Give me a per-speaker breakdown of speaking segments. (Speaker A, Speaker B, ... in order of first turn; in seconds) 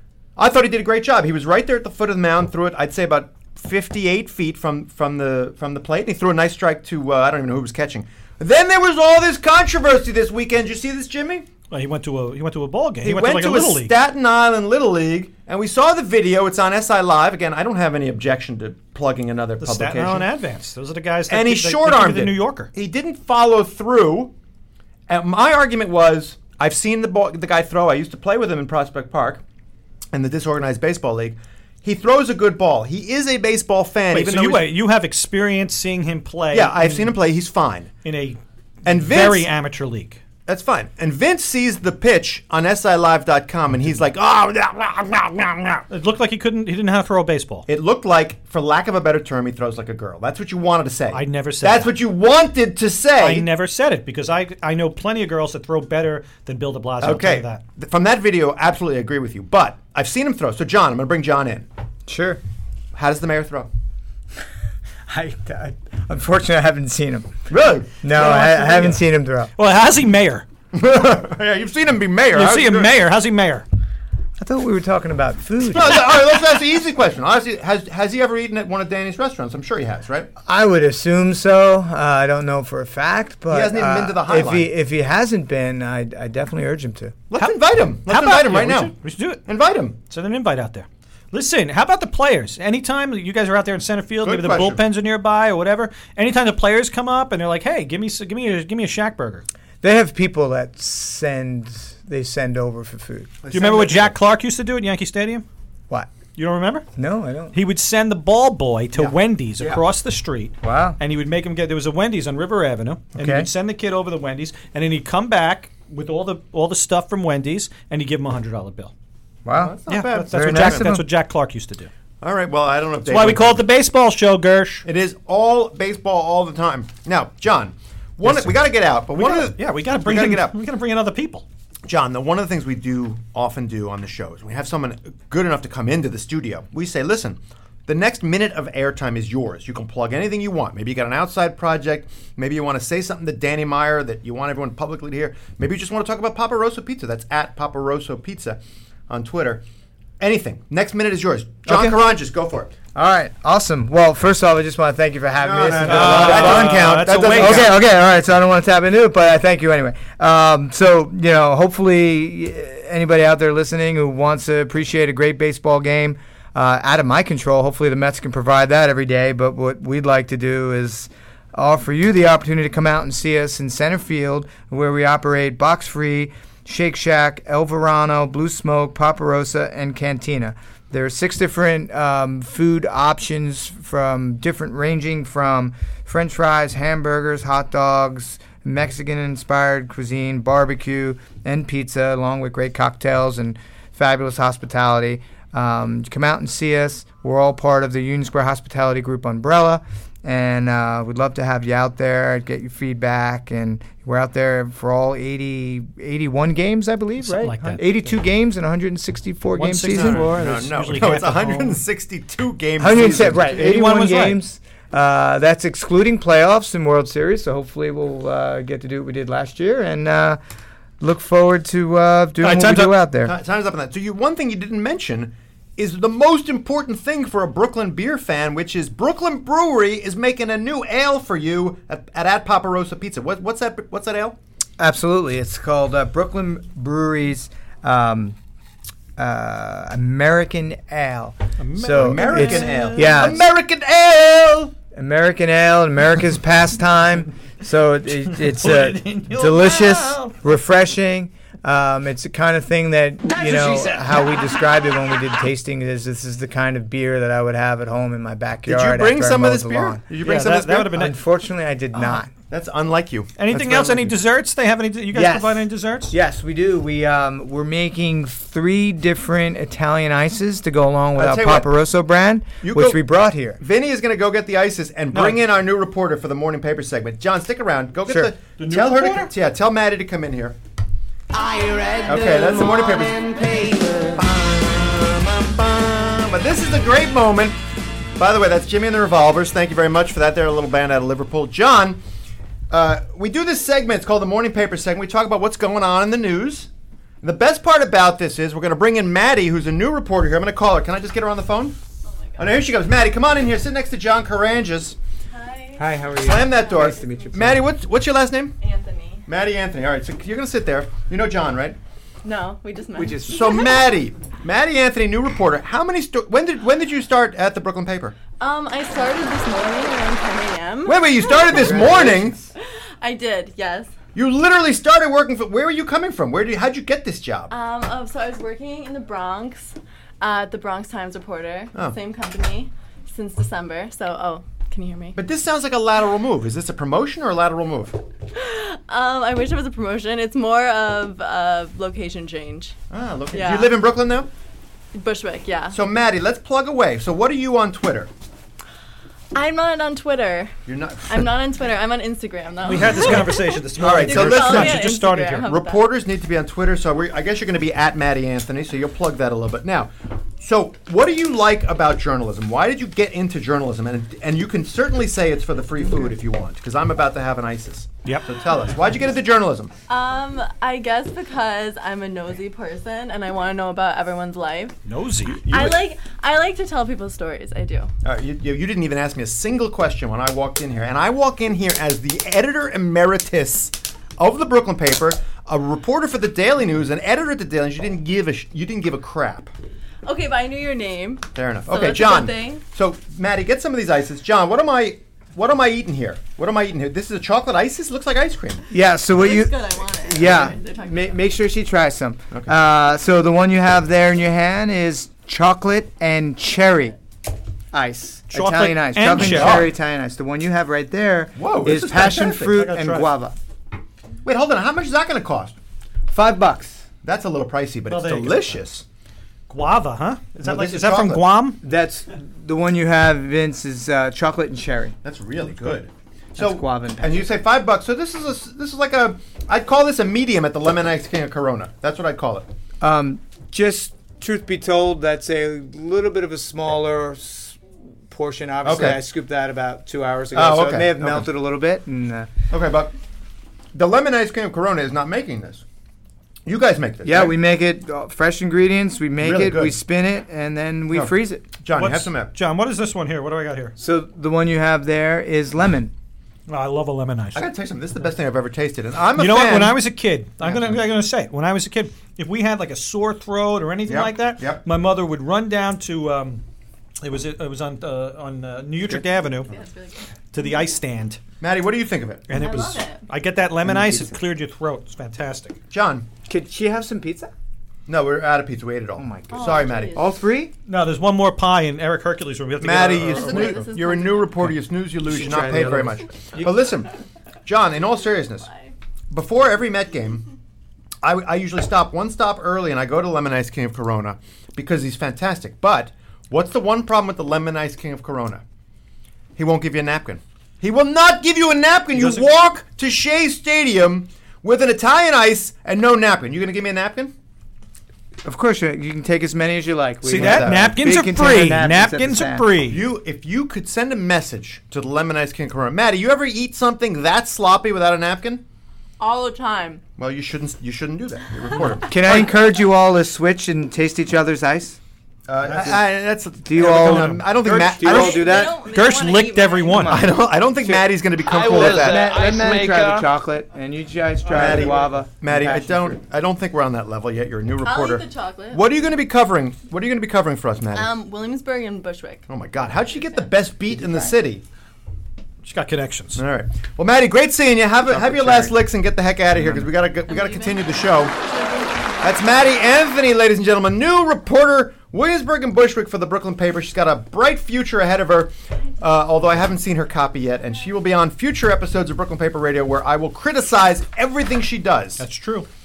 Speaker A: 0.3-11.5, 13.0-20.3, 21.3-24.3, 25.1-29.4, 30.1-34.7, 36.5-37.9, 38.8-39.5, 40.5-45.8, 47.7-53.5, 57.0-61.6, 62.9-63.7, 67.5-69.0, 70.7-72.9, 75.7-80.3, 83.5-84.7, 87.3-88.9, 89.5-90.0, 94.2-94.8, 103.4-104.1, 108.9-109.8, 119.5-120.9, 122.2-123.6, 124.8-130.5, 131.9-149.6, 150.2-152.7, 155.4-157.8, 209.9-213.7, 223.2-234.4, 241.9-244.7, 258.7-261.0, 262.5-263.8, 271.1-271.7, 272.6-273.0, 273.6-280.6, 282.0-287.6, 288.1-292.0, 292.7-296.7, 297.2-301.8, 302.4-305.0, 306.2-308.6, 309.3-311.8, 313.1-318.2, 320.8-322.4, 324.1-327.5, 335.1-338.0, 342.9-344.3, 345.7-348.1, 350.7-351.4, 353.8-369.7, 375.4-375.9, 378.0-389.5, 391.3-398.6, 409.1-409.7, 411.4-412.5, 414.2-415.6, 417.0-418.8, 420.4-421.2, 425.0-432.4, 438.6-439.0, 440.3-441.3, 442.5-442.9, 443.7-445.6, 446.4-447.3, 449.2-449.8, 450.9-452.3, 457.3-459.8, 460.4-460.7, 463.9-464.6, 471.4-472.5, 475.7-476.1, 477.9-480.0, 482.6-486.9, 487.4-488.5, 489.1-490.2, 491.0-498.4, 499.4-507.1, 510.1-510.6, 512.7-518.4, 520.0-522.3, 525.3-528.4, 529.9-532.4, 534.3-540.9, 542.3-544.4, 546.1-551.1, 552.0-565.0
Speaker B: 11.7-13.9, 19.6-22.7, 34.1-37.1, 38.0-40.2, 45.9-47.7, 51.1-51.9, 53.2-57.6, 69.5-70.4, 72.3-73.7, 87.3-89.5, 90.1-99.4, 103.5-105.5, 106.3-106.8, 107.5-118.9, 119.9-121.9, 123.0-124.8, 128.2-131.4, 155.8-157.7, 207.2-208.1, 209.5-211.8, 213.4-214.4, 222.4-223.0, 241.6-243.4, 248.2-250.4, 253.3-254.5, 260.2-261.2, 263.4-266.1, 275.1-275.4, 278.6-279.3, 352.6-355.5, 374.9-375.4, 408.3-409.7, 412.5-413.1, 417.9-418.6, 419.5-421.6, 451.7-453.8, 456.5-457.5, 459.2-466.4, 467.0-469.5, 470.3-471.2, 472.3-475.6, 480.7-483.7, 501.9-502.3, 510.0-512.9, 525.4-525.7, 526.6-527.3, 528.7-530.0, 545.4-546.2, 547.9-548.6, 549.4-549.7, 565.0-565.5
Speaker C: 62.1-62.4, 65.1-67.4, 68.0-69.5, 74.4-76.2, 80.4-87.2, 99.8-103.4, 107.0-107.5, 110.6-111.0, 113.2-113.5, 119.4-121.0, 151.7-152.0, 152.9-210.3, 212.8-220.4, 221.0-223.3, 234.8-238.3, 239.2-243.4, 244.9-260.0, 260.9-262.3, 263.5-264.1, 265.1-273.6, 278.1-278.3, 305.8-307.7, 321.4-322.5, 398.7-407.0, 407.7-413.4, 416.1-416.9, 421.6-424.9, 426.4-427.3, 432.8-442.3, 447.0-451.4, 453.8-455.9, 473.6-474.1, 476.2-477.3, 479.0-480.5, 485.0-486.5, 508.2-512.5, 521.8-524.8, 525.5-525.8, 526.4-528.6, 529.7-536.0
Speaker D: 281.4-282.1, 531.4-533.0
Speaker E: 302.1-302.6, 305.3-307.4, 308.6-309.3, 312.2-314.0, 318.4-322.0, 323.0-323.9, 327.5-335.2, 338.3-342.8, 343.3-343.8, 344.9-345.8, 349.3-350.5, 351.1-355.9, 369.9-374.8, 375.4-377.9, 390.0-392.6, 399.1-401.2, 469.5-470.0, 472.3-473.0, 479.3-480.1, 483.1-484.4, 488.0-488.7, 519.0-519.8, 527.8-530.2, 537.6-538.8, 540.7-542.2, 543.1-544.1, 550.1-552.1